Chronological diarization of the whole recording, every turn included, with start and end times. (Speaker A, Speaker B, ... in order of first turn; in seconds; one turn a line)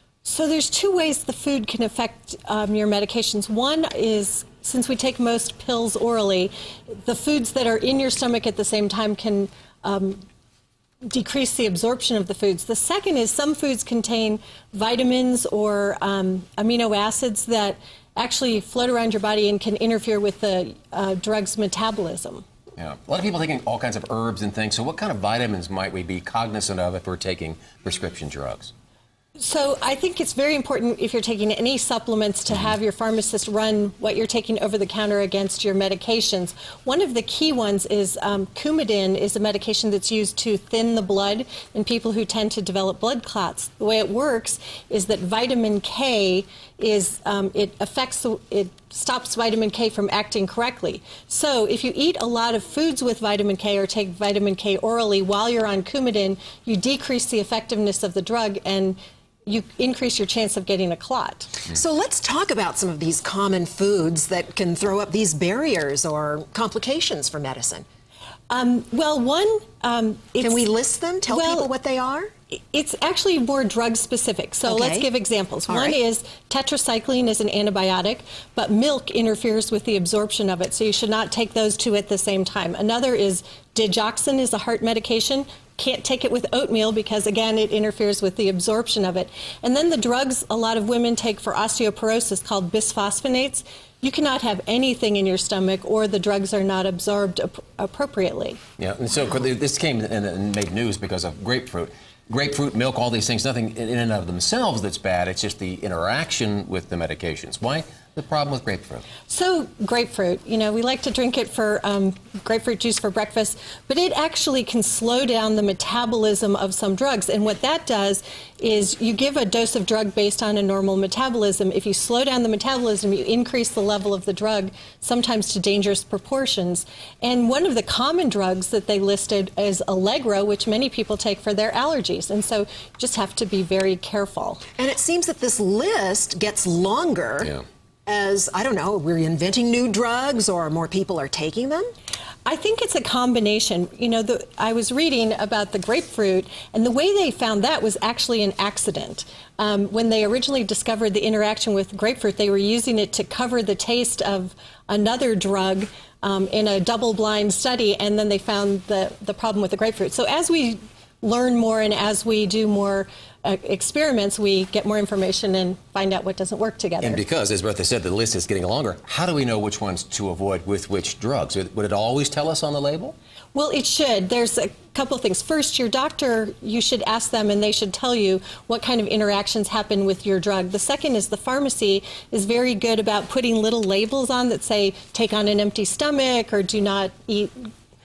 Speaker A: 0.2-10.2
Speaker A: 11.0-22.4
Speaker B: 22.8-28.7
Speaker A: 29.4-61.6
Speaker C: 61.7-67.8
Speaker A: 68.5-70.7
Speaker C: 70.4-72.3
Speaker A: 71.3-71.7
Speaker A: 72.7-98.6
Speaker C: 74.7-75.1
Speaker C: 75.7-76.0
Speaker B: 98.8-109.0
Speaker A: 109.3-134.6
Speaker C: 134.8-141.9
Speaker A: 142.4-167.2
Speaker B: 167.0-173.1
Speaker A: 173.5-187.7